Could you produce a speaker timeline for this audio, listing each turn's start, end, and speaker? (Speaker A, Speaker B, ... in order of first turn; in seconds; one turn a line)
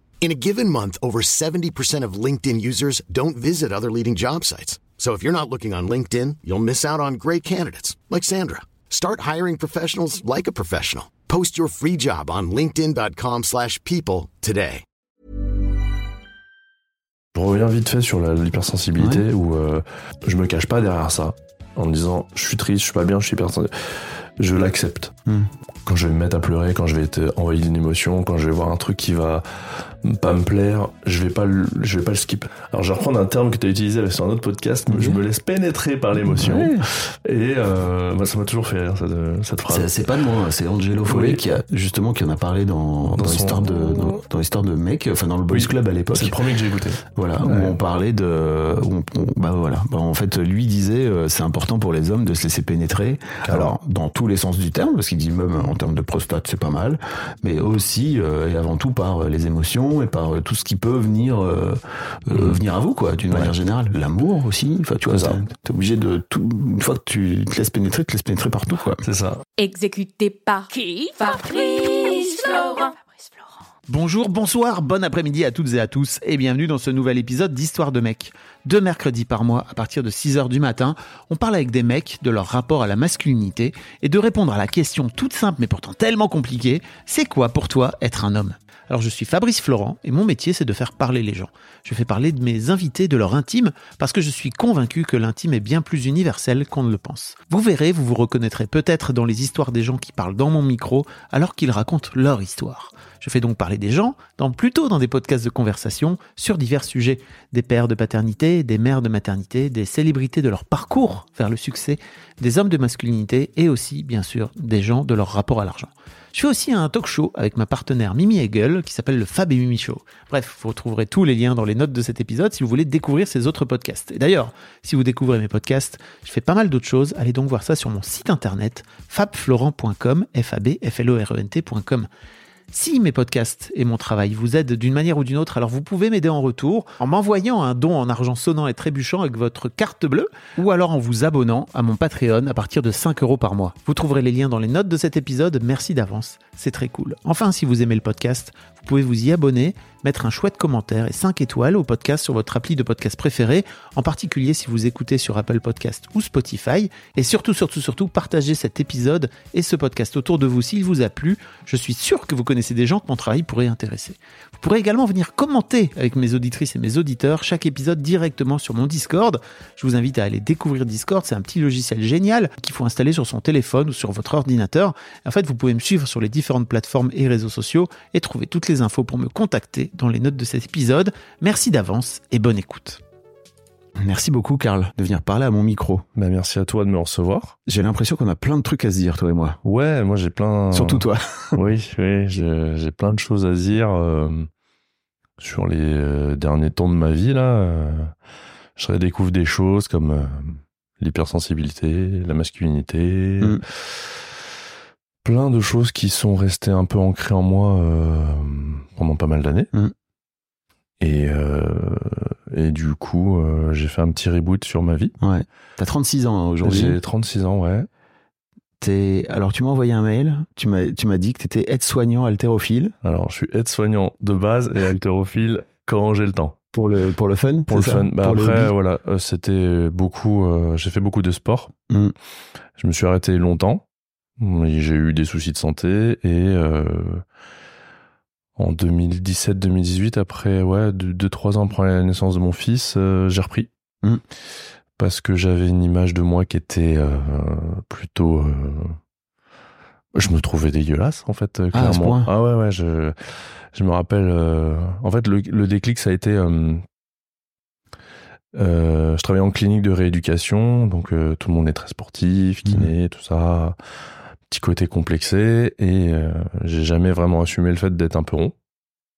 Speaker A: 0.2-14.8
Speaker B: 17.3-25.1
Speaker C: 19.0-19.2
Speaker B: 25.8-40.0
Speaker C: 34.9-35.2
Speaker C: 36.2-36.9
Speaker C: 39.7-46.4
Speaker B: 41.1-41.6
Speaker B: 43.1-44.2
Speaker B: 45.5-47.8
Speaker C: 47.0-69.0
Speaker B: 53.4-53.7
Speaker B: 62.3-62.6
Speaker B: 65.1-65.4
Speaker B: 69.0-69.4
Speaker D: 69.6-73.0
Speaker E: 73.9-132.1
Speaker E: 132.7-183.0
Speaker C: 184.0-186.0
Speaker B: 186.1-187.6
Speaker C: 187.7-189.6
Speaker B: 189.6-194.5
Speaker C: 190.7-191.6
Speaker B: 195.4-198.1
Speaker B: 198.8-204.3
Speaker B: 205.2-209.7
Speaker B: 211.0-215.1
Speaker C: 215.2-217.0
Speaker B: 216.6-217.9
Speaker C: 218.8-222.9
Speaker B: 223.0-226.6
Speaker C: 226.7-228.7
Speaker B: 227.7-231.7
Speaker B: 232.8-233.8
Speaker B: 234.4-237.2
Speaker B: 238.6-243.7
Speaker B: 245.0-248.9
Speaker B: 250.1-256.8
Speaker C: 251.7-252.3
Speaker B: 258.5-263.8
Speaker C: 262.6-262.9
Speaker B: 264.5-268.5